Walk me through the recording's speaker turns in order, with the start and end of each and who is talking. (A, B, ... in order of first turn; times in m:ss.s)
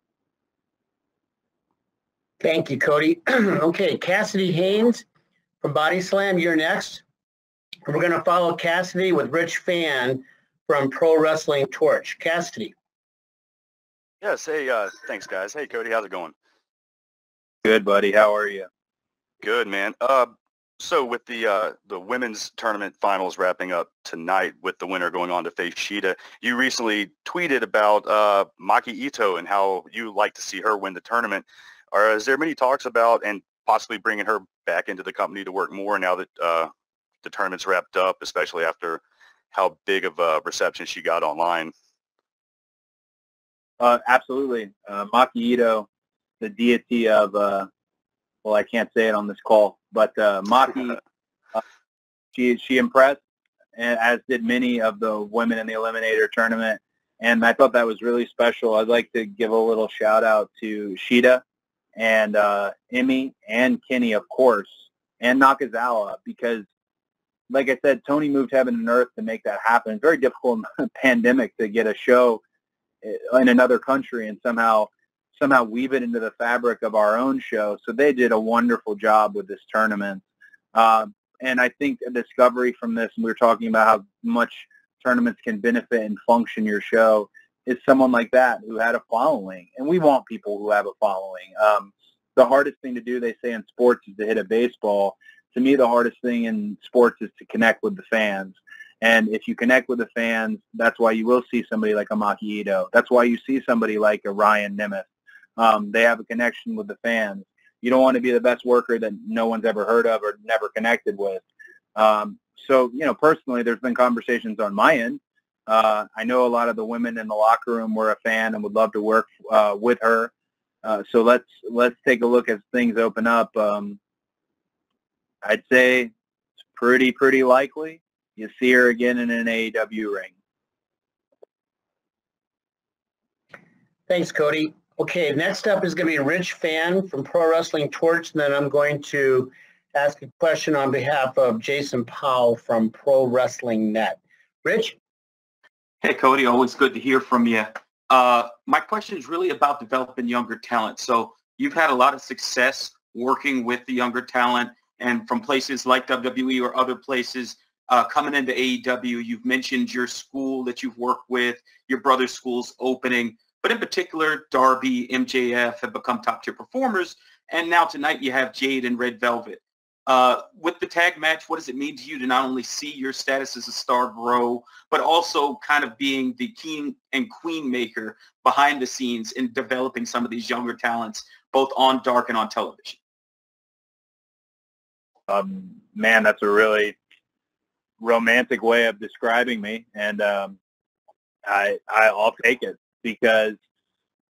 0:02.4-0:05.0 A
0:05.6-0:07.0 A
0:07.8-0:12.7 A
0:14.2-0:16.3 B
0:17.6-0:18.7 C
0:19.4-0:36.7 B
0:37.2-0:39.0 B
0:39.5-0:41.7 B
0:43.8-0:45.9 C
0:46.4-0:47.7 C
0:48.4-0:51.0 C
0:52.3-0:53.2 C
0:53.8-1:01.4 C
1:02.0-1:06.6 C
1:07.5-1:12.4 C
1:13.0-1:51.4 C
1:52.0-2:00.3 C
2:00.8-2:04.0 C
2:05.4-2:06.1 C
2:06.7-2:10.3 C
2:14.1-2:25.0 A
2:26.0-3:03.0 D
3:05.3-3:06.9 C
3:08.0-3:10.6 C
3:11.4-3:13.6 C